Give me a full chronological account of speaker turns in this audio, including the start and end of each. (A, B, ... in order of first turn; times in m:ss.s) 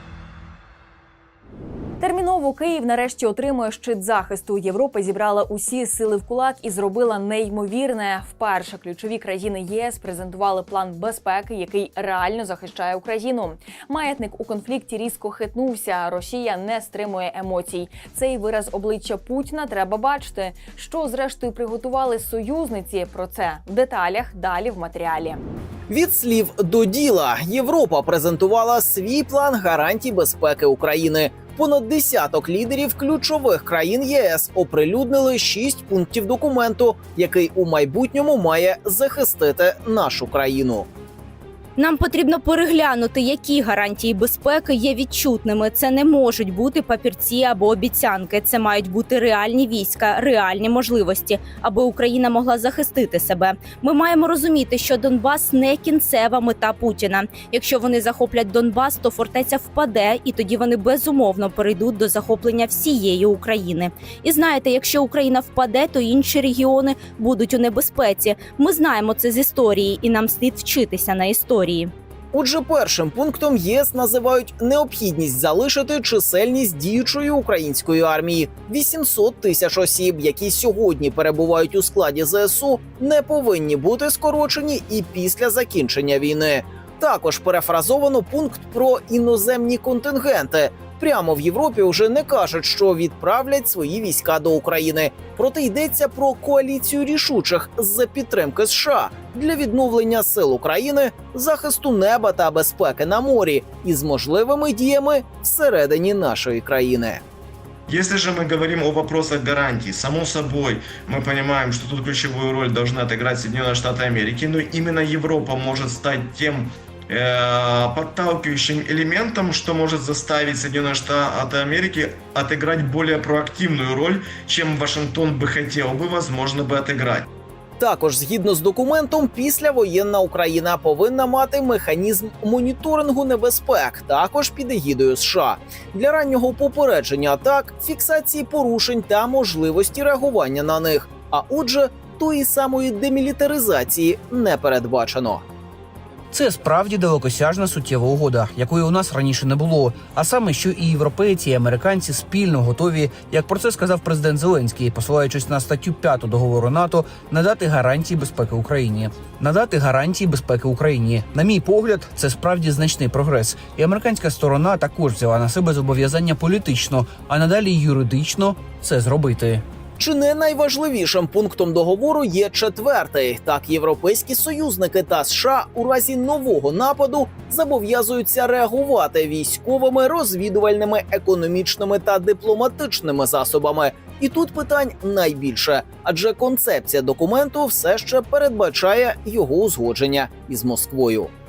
0:02.0-0:25.4 A
0:25.9-0:40.9 B
0:41.8-1:11.9 C
1:12.3-1:47.2 B
1:47.9-2:07.3 D
2:07.8-2:25.4 B
2:26.3-2:49.6 E
2:50.0-3:11.3 B